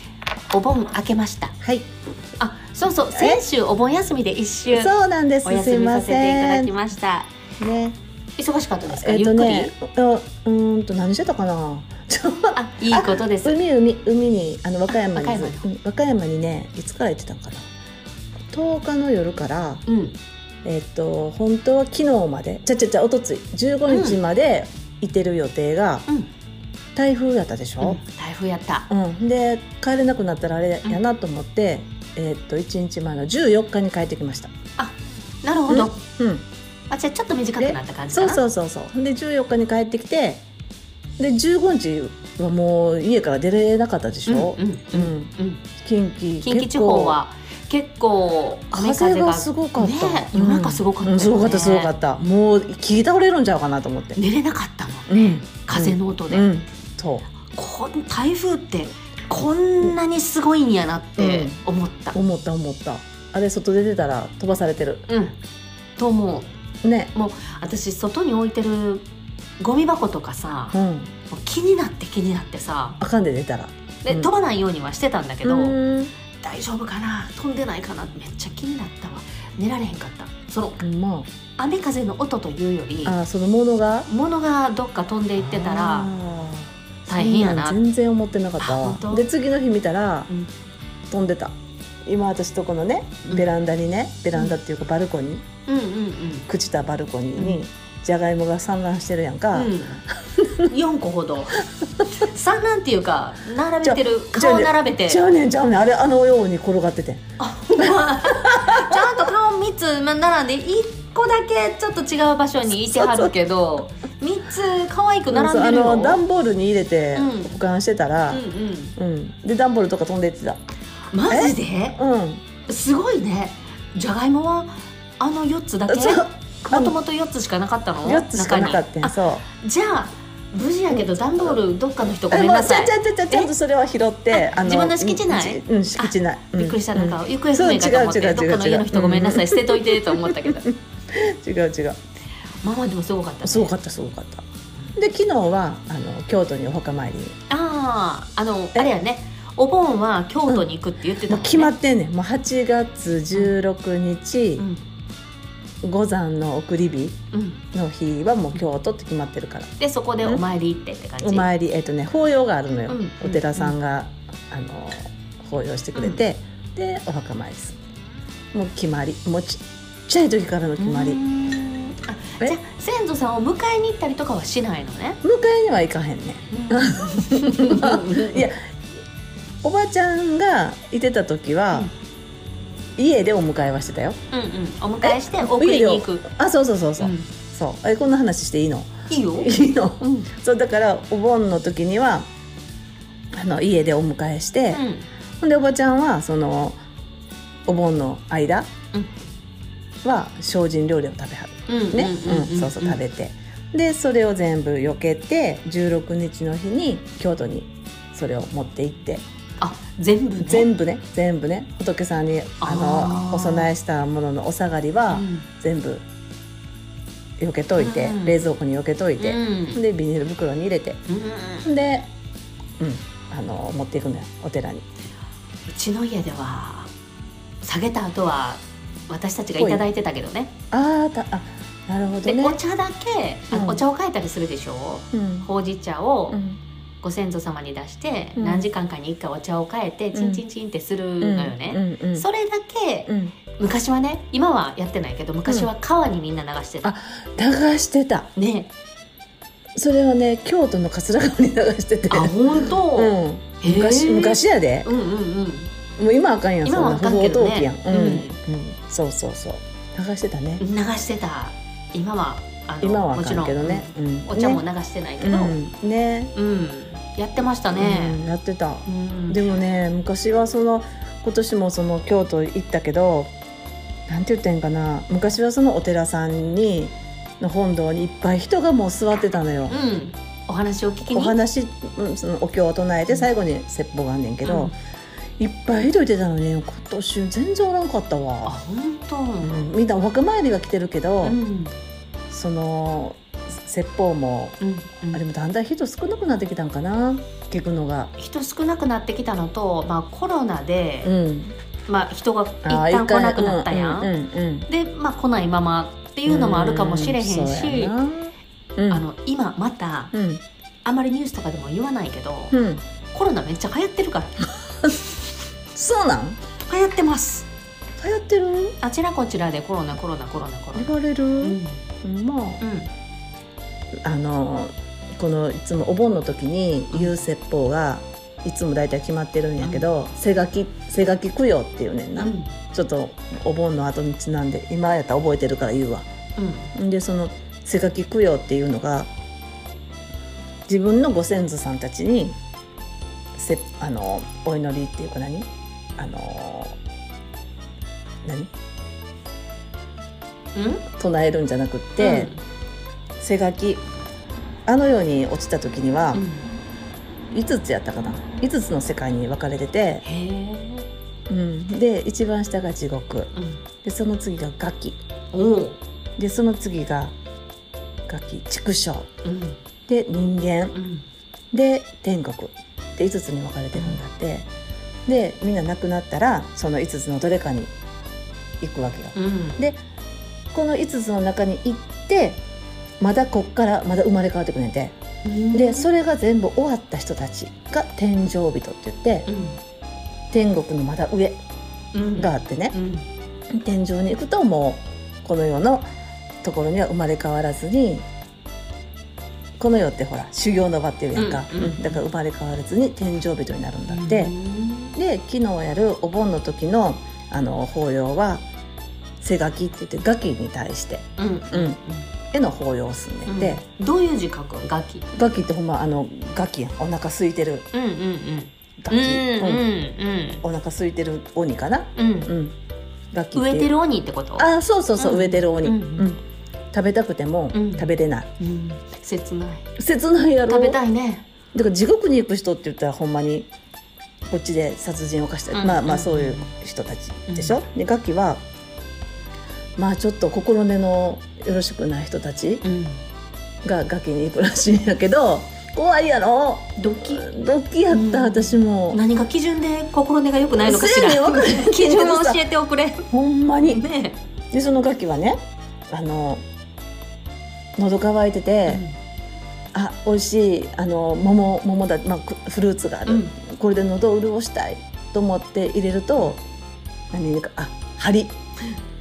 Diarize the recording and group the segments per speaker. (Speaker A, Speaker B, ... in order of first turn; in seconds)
Speaker A: 0.5-1.6, 2.4-4.9, 5.4-7.3, 8.4-9.7, 12.6-13.6, 14.9-15.7, 19.9-20.2, 23.9-24.2, 27.8-28.9, 34.8-36.0, 36.9-38.4, 44.3-45.6, 46.4-51.9, 54.1-56.5, 57.5-62.2, 65.1-65.4, 66.0-66.5, 67.2-69.0, 69.6-70.8, 71.3-73.0, 74.0-75.8, 76.4-80.8, 81.6-83.2, 84.1-86.1, 87.1-87.8, 88.6-89.3, 95.7-96.5, 99.5-100.0, 100.6-105.3, 107.4-116.2, 117.2-117.6, 118.3-119.0, 121.1-122.0, 122.7-133.5, 134.3-140.7, 142.6-143.8, 147.5-151.7, 157.3-157.6, 159.8-161.5, 162.9-163.8, 165.9-166.2, 170.8-175.2, 176.5-178.5, 184.3-186.3, 187.0-187.3, 189.1-190.3, 194.7-195.1, 201.7-203.0, 209.6-210.7, 212.6-213.7, 215.1-215.5, 217.8-218.4, 219.2-219.8, 221.1-221.7, 225.7-226.9, 227.6-230.5, 232.2-236.4, 237.0-246.9, 248.4-248.7, 252.1-255.7, 256.6-258.4, 260.6-265.6, 266.4-268.2, 268.9-269.4, 279.7-281.4, 284.4-284.7, 288.4-289.7, 291.2-291.7, 294.6-295.2, 298.2-301.1, 301.9-304.1, 304.7-307.9, 308.9-310.1, 310.9-312.6, 313.1-314.5, 316.7-317.5, 318.8-321.8, 322.6-322.9, 326.9-327.2, 329.6-329.9, 332.2-332.5, 336.4-336.7, 350.6-350.9, 352.0-352.4, 356.1-356.5, 360.0-360.9, 363.4-363.6, 365.3-365.8, 369.2-369.6, 370.7-371.1, 373.7-374.0, 379.1-379.6, 385.2-385.9, 389.3-389.6, 391.9-393.1, 401.1-402.0, 403.9-404.9, 411.2-412.1, 413.3-415.2, 417.7-420.4, 422.0-422.3, 423.4-426.1, 427.5-427.9, 428.4-429.7, 430.4-431.2, 435.5-436.5, 437.3-437.6, 442.6-443.0, 446.8-447.3, 447.9-453.1, 453.6-454.2, 458.7-458.9, 463.1-463.3
Speaker B: 1.6-1.9, 3.1-3.4, 4.7-6.8, 7.6-8.0, 8.9-17.7, 18.5-19.8, 20.6-26.1, 26.9-28.0, 28.9-34.5, 35.7-36.5, 37.6-40.4, 41.2-47.2, 48.7-54.2, 55.1-57.3, 61.2-61.6, 62.1-65.1, 66.8-67.1, 70.7-71.1, 73.0-74.3, 75.4-76.1, 80.8-81.3, 83.0-84.1, 85.4-90.3, 91.1-91.5, 92.0-95.5, 96.5-100.7, 103.8-107.2, 107.8-109.3, 112.7-113.3, 115.3-118.4, 119.0-120.6, 121.3-122.4, 125.9-127.0, 128.0-129.4, 130.9-131.5, 132.3-142.0, 143.4-144.4, 144.9-147.3, 151.3-154.7, 155.8-157.2, 157.7-159.7, 161.2-167.8, 168.5-171.2, 175.2-178.6, 179.6-181.9, 183.0-184.2, 185.0-192.3, 193.3-194.8, 195.4-196.8, 197.7-198.7, 200.0-209.2, 210.4-216.0, 217.4-221.0, 221.6-222.1, 222.8-224.9, 229.6-229.9, 230.7-232.6, 233.5-233.8, 235.1-235.5, 236.3-236.6, 238.4-238.7, 240.1-240.4, 241.2-242.3, 243.1-243.4, 245.5-245.7, 246.8-248.3, 249.8-254.9, 256.0-260.6, 262.8-264.6, 265.2-266.3, 267.7-273.3, 274.1-279.8, 281.1-284.7, 285.4-288.6, 289.4-291.4, 292.3-294.6, 295.1-298.1, 301.0-301.6, 302.6-304.7, 306.3-309.0, 310.1-310.4, 312.5-312.8, 315.7-316.4, 318.0-318.8, 320.7-322.6, 324.1-336.1, 336.8-339.1, 340.7-342.4, 343.4-346.8, 348.2-348.5, 350.9-352.3, 353.2-353.8, 354.7-356.2, 357.3-360.1, 361.3-363.3, 363.8-365.0, 366.2-367.1, 368.1-369.1, 369.9-370.8, 371.5-374.5, 375.1-377.7, 378.6-379.8, 380.5-382.4, 383.0-385.0, 385.5-389.3, 390.3-391.4, 392.2-392.8, 393.5-395.9, 396.4-398.1, 399.6-404.4, 404.9-408.4, 409.2-411.8, 412.3-413.6, 415.1-417.7, 418.8-419.7, 420.4-422.6, 423.1-423.7, 424.4-426.2, 426.7-428.3, 429.8-430.8, 431.5-433.5, 434.3-438.4, 439.8-442.6, 443.6-449.0, 450.6-452.4, 453.1-453.9, 454.5-455.4, 455.9-456.4, 457.8-458.9, 459.7-466.4, 467.1-468.4